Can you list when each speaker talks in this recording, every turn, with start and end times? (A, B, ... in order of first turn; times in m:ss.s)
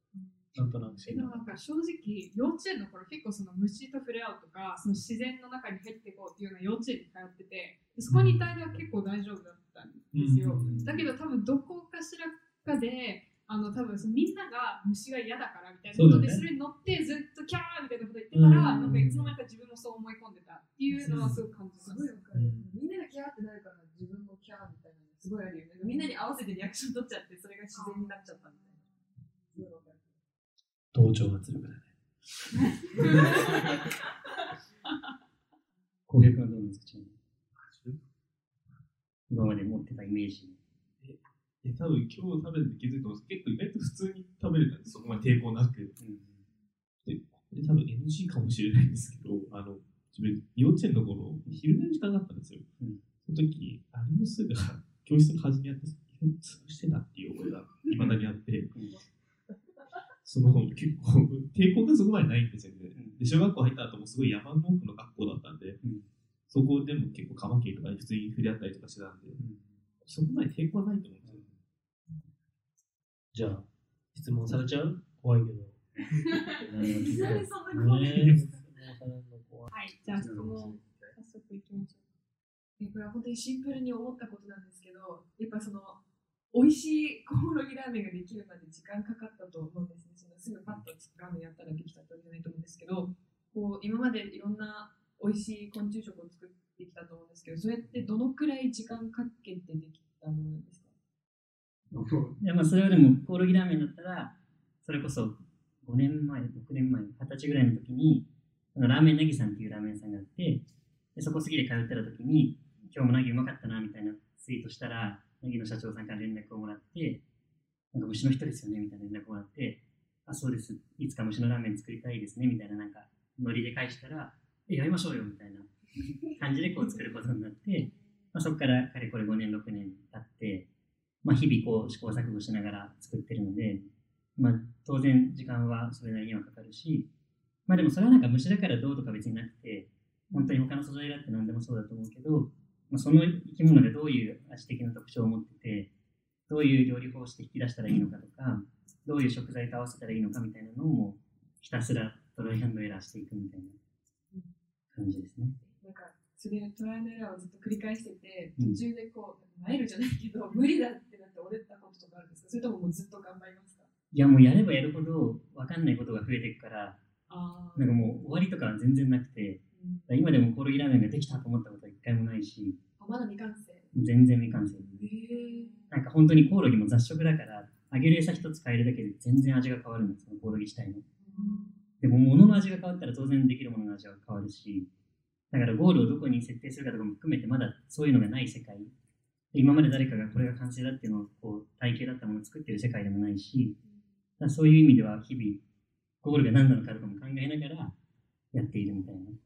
0:00.2-0:22.2 A
0:00.6-0:01.4 B
0:08.1-0:08.6 B
0:10.1-0:11.1 B
0:15.9-0:16.5 B
0:18.3-0:19.4 B
0:20.9-0:28.8 C
0:21.0-0:21.4 B
0:22.3-0:22.7 B
0:27.7-0:28.1 A
0:29.5-0:30.1 C
0:30.9-0:32.5 B
0:32.9-0:33.5 C
0:36.1-0:37.2 D
0:37.6-0:38.0 E
0:39.3-0:40.6 D
0:41.0-0:46.0 E
0:46.0-0:46.4 D
0:47.0-0:52.7 E
0:53.2-0:58.7 E
0:57.9-0:59.0 D
1:00.2-1:05.8 E
1:06.5-1:09.4 E
1:09.4-1:09.7 D
1:10.0-1:11.5 E
1:13.3-1:15.8 B
1:16.6-1:18.6 C
1:16.6-1:19.7 B
1:16.9-1:17.4 D
1:19.7-1:22.1 F
1:20.1-1:21.0 E
1:20.2-1:20.7 D
1:22.8-1:40.9 C
1:41.9-1:50.6 D
1:51.2-1:57.2 D
1:57.9-2:05.7 D
2:06.3-2:10.7 D
2:11.2-2:17.1 D
2:17.7-2:25.9 D
2:26.5-2:33.8 D
2:35.0-2:35.6 D
2:35.7-2:43.9 C
2:44.1-2:47.0 D
2:47.3-2:48.0 C
2:47.8-2:52.8 D
2:49.8-2:50.2 C
2:53.0-2:53.9 C
2:53.9-2:55.0 D
2:54.9-2:55.7 C
2:55.3-2:55.9 F
2:55.9-3:01.0 D
3:01.3-3:01.7 C
3:01.3-3:01.7 F
3:02.0-3:04.9 D
3:05.5-3:08.9 D
3:09.5-3:13.8 D
3:14.4-3:15.6 D
3:16.2-3:17.9 D
3:18.5-3:19.4 D